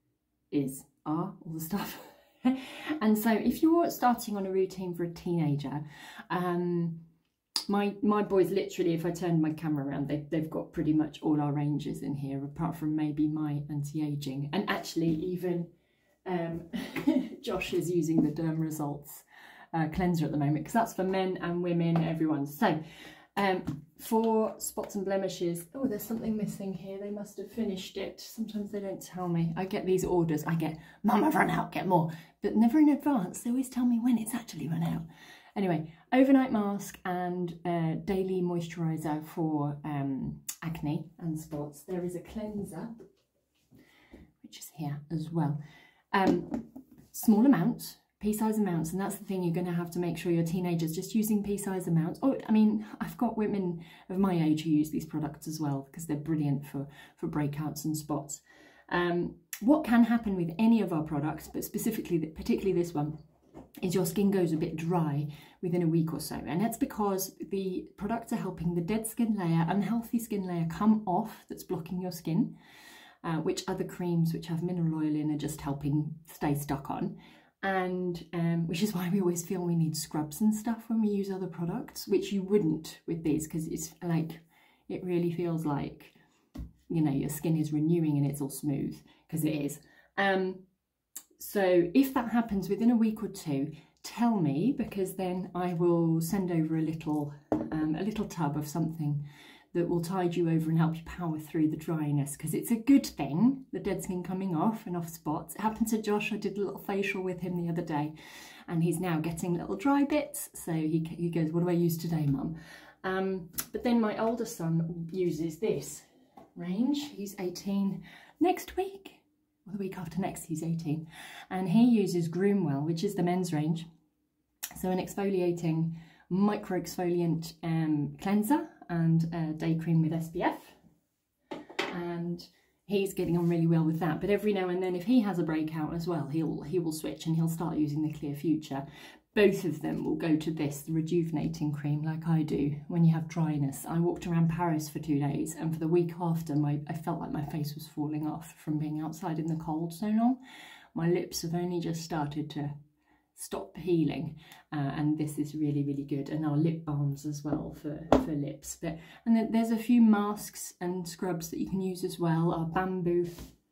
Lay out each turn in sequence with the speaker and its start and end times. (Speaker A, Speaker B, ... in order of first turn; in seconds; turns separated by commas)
Speaker A: 0.5-7.0, Speaker A: 7.7-15.7, Speaker A: 16.2-22.8, Speaker A: 23.4-35.0, Speaker A: 35.5-43.0, Speaker A: 44.4-45.6, Speaker A: 46.1-63.1, Speaker A: 63.8-72.5, Speaker A: 73.2-86.1, Speaker A: 86.9-90.6, Speaker A: 91.4-108.1, Speaker A: 108.7-123.8, Speaker A: 124.8-130.8, Speaker A: 131.9-150.4, Speaker A: 150.9-152.7, Speaker A: 153.3-163.5